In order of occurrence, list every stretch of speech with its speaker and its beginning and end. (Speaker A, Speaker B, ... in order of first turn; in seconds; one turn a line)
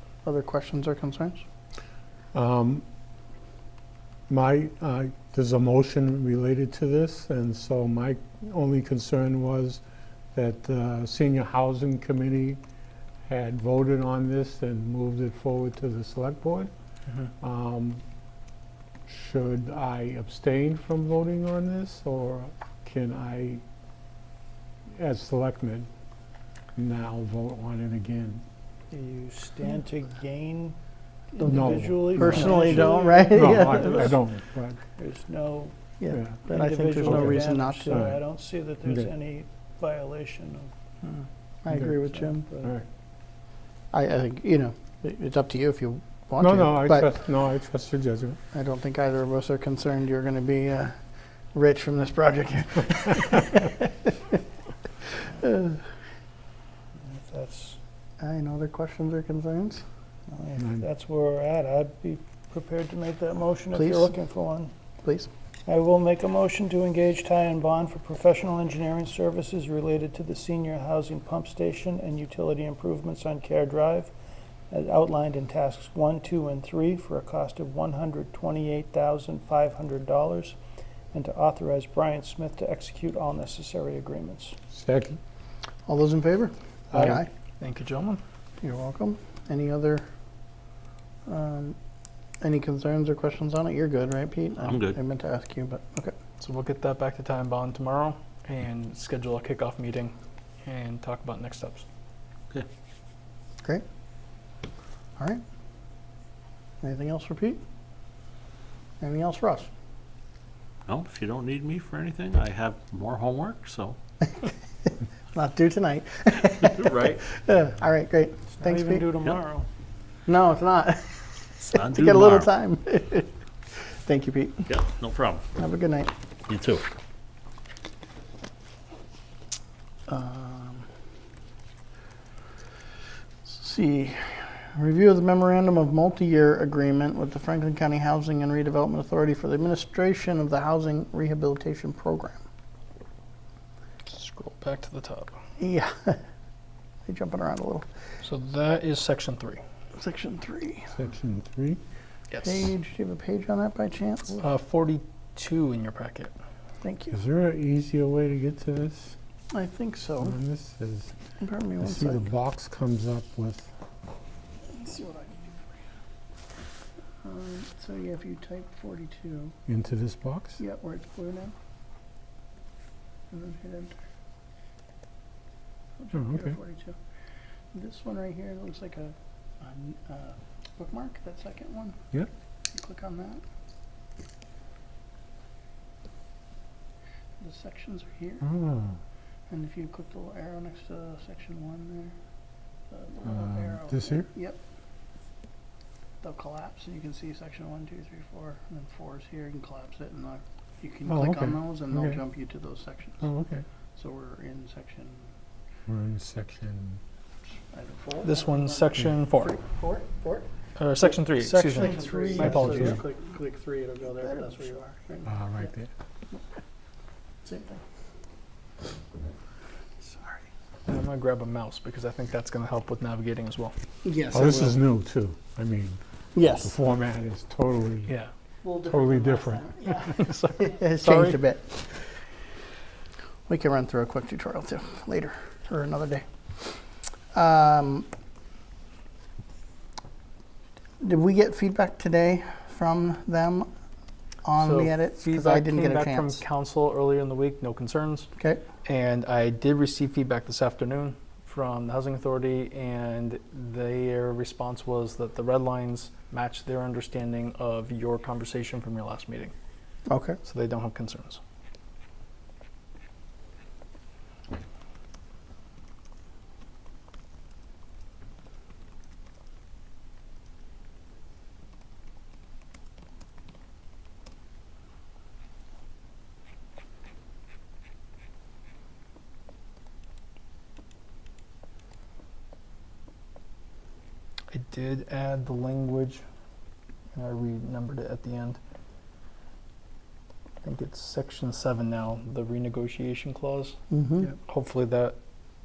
Speaker A: 0.2-1.4
Speaker B: 2.3-2.8
Speaker B: 4.3-9.8
Speaker B: 10.3-12.6
Speaker B: 13.3-16.7
Speaker B: 17.4-18.0
Speaker B: 19.1-23.6
Speaker B: 24.9-25.9
Speaker B: 26.8-28.4
Speaker C: 28.9-30.8
Speaker C: 31.3-34.1
Speaker B: 31.4-34.8
Speaker A: 31.5-34.1
Speaker C: 35.0-35.8
Speaker A: 36.0-38.0
Speaker B: 36.1-36.4
Speaker C: 36.4-40.7
Speaker B: 37.0-38.2
Speaker B: 38.8-39.1
Speaker A: 41.0-42.5
Speaker C: 42.0-42.7
Speaker A: 43.9-47.1
Speaker B: 46.4-48.4
Speaker A: 48.5-51.0
Speaker A: 51.5-54.3
Speaker A: 55.2-55.9
Speaker C: 57.0-57.8
Speaker A: 58.2-59.8
Speaker C: 60.3-64.7
Speaker B: 60.6-60.8
Speaker A: 63.7-64.2
Speaker A: 65.0-65.3
Speaker C: 65.7-74.1
Speaker C: 74.7-80.6
Speaker C: 81.1-84.5
Speaker B: 84.7-85.2
Speaker A: 85.9-87.3
Speaker D: 87.6-88.2
Speaker A: 88.6-90.0
Speaker A: 91.2-91.8
Speaker A: 92.4-96.1
Speaker E: 94.6-95.0
Speaker D: 96.4-101.8
Speaker A: 106.8-107.6
Speaker A: 109.0-109.7
Speaker E: 110.9-114.0
Speaker A: 114.9-119.1
Speaker E: 116.6-117.2
Speaker C: 118.6-119.7
Speaker A: 120.3-124.7
Speaker E: 121.7-122.5
Speaker E: 124.7-125.4
Speaker A: 125.5-126.1
Speaker E: 126.5-126.9
Speaker A: 130.1-130.9
Speaker A: 133.4-142.4
Speaker D: 144.1-145.4
Speaker A: 145.6-146.2
Speaker A: 147.1-147.9
Speaker D: 148.2-149.6
Speaker A: 150.0-150.9
Speaker B: 150.9-151.8
Speaker D: 152.3-152.7
Speaker A: 152.4-154.4
Speaker D: 154.4-156.3
Speaker A: 156.8-157.2
Speaker B: 157.1-159.2
Speaker A: 159.5-160.4
Speaker B: 160.2-161.1
Speaker A: 161.4-162.2
Speaker B: 161.8-163.7
Speaker A: 164.7-165.8
Speaker A: 167.2-169.5
Speaker B: 169.7-170.6
Speaker A: 170.6-171.5
Speaker A: 173.3-174.0
Speaker A: 176.0-177.0
Speaker B: 176.1-176.6
Speaker A: 177.7-182.0
Speaker A: 182.7-183.4
Speaker A: 187.4-188.4
Speaker B: 188.4-189.0
Speaker A: 189.5-192.2
Speaker A: 192.9-194.6
Speaker B: 193.2-194.3
Speaker A: 196.2-203.3
Speaker B: 201.1-202.2
Speaker B: 203.2-203.7
Speaker A: 204.0-205.3
Speaker B: 205.9-207.0
Speaker A: 207.7-210.5
Speaker D: 208.2-209.5
Speaker D: 210.8-213.0
Speaker A: 211.0-215.7
Speaker C: 211.7-212.6
Speaker B: 212.5-213.0
Speaker B: 215.2-215.9
Speaker A: 217.4-217.8
Speaker A: 220.0-220.4
Speaker D: 220.9-223.8
Speaker A: 224.0-224.8
Speaker B: 224.3-226.0
Speaker A: 226.3-226.7
Speaker B: 226.5-228.2
Speaker A: 228.6-231.9
Speaker B: 228.8-230.0
Speaker D: 230.2-231.4
Speaker A: 233.5-236.8
Speaker A: 237.3-238.1
Speaker A: 241.0-243.7
Speaker A: 244.4-246.4
Speaker D: 244.6-248.3
Speaker A: 248.4-248.6
Speaker D: 248.8-259.5
Speaker A: 260.1-260.4
Speaker D: 260.4-261.4
Speaker D: 284.5-286.2
Speaker D: 287.1-288.6
Speaker D: 290.6-295.2
Speaker A: 293.9-294.3